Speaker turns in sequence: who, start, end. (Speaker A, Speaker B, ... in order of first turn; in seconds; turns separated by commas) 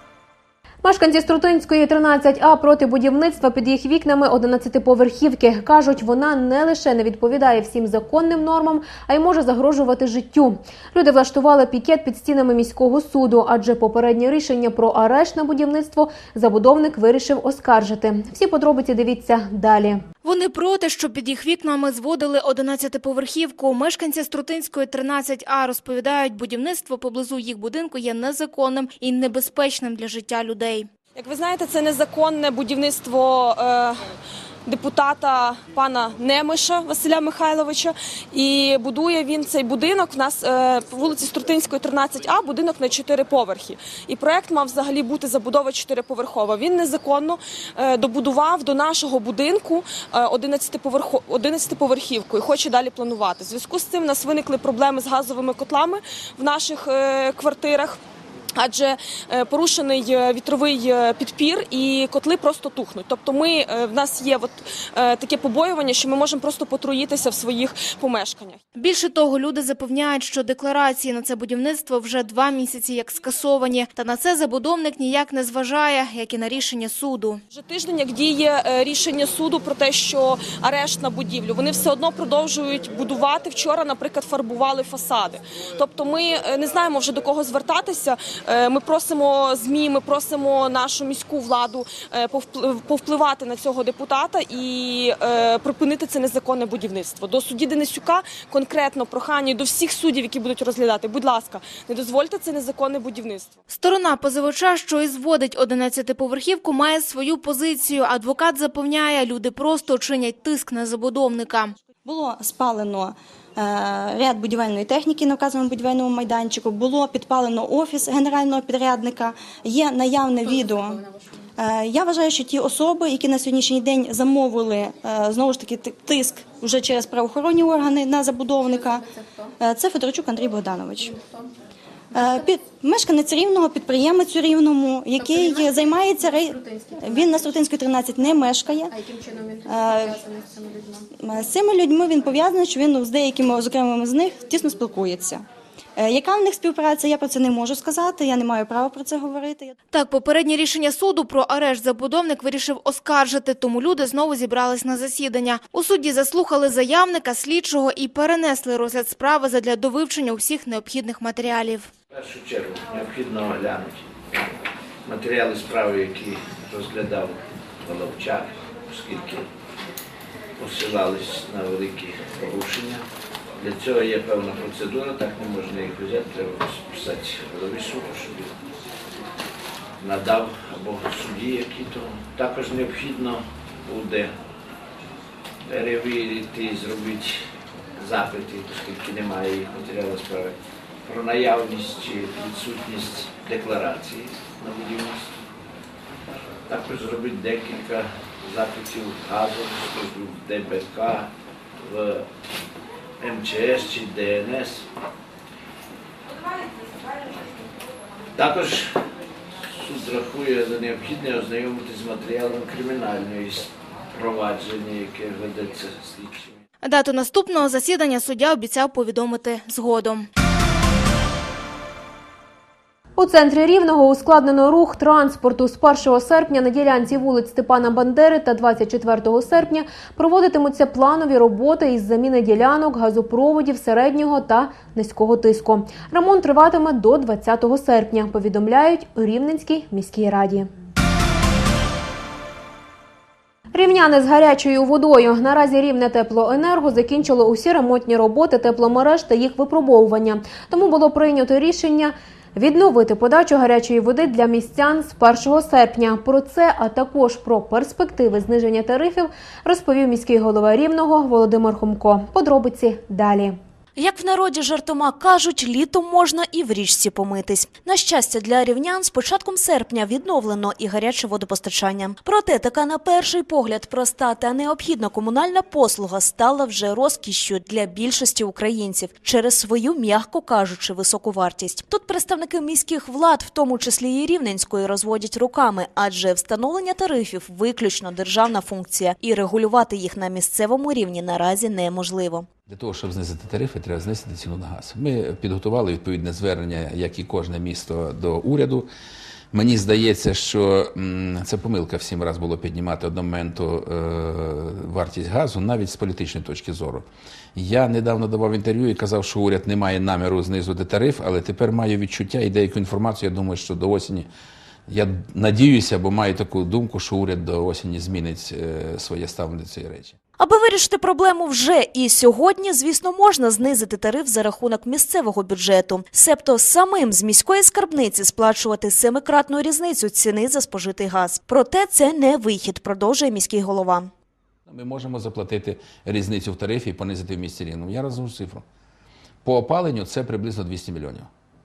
Speaker A: 0.8-20.0, Speaker B: 20.2-30.9, Speaker C: 31.2-34.0, Speaker C: 34.7-58.0, Speaker C: 58.6-68.6, Speaker B: 68.8-77.4, Speaker C: 77.5-103.5, Speaker B: 103.7-111.7, Speaker D: 112.0-121.0, Speaker D: 121.6-129.1, Speaker D: 129.6-131.2, Speaker D: 132.1-138.9, Speaker D: 139.6-140.2, Speaker D: 141.2-145.4, Speaker D: 146.0-149.8, Speaker B: 149.9-161.9, Speaker E: 162.1-164.0, Speaker E: 165.1-169.4, Speaker E: 170.6-173.0, Speaker E: 173.6-178.5, Speaker E: 180.0-184.3, Speaker E: 185.7-187.3, Speaker E: 188.0-190.6, Speaker E: 191.1-195.3, Speaker E: 196.7-201.3, Speaker E: 201.9-202.2, Speaker E: 203.2-204.8, Speaker E: 208.4-208.9, Speaker E: 209.8-216.5, Speaker B: 216.8-220.3, Speaker A: 223.2-240.7, Speaker A: 243.7-263.6, Speaker F: 264.0-292.5, Speaker G: 292.7-298.9, Speaker G: 299.5-314.3, Speaker G: 314.9-320.1, Speaker F: 320.4-334.1, Speaker G: 334.7-338.6, Speaker G: 339.4-341.3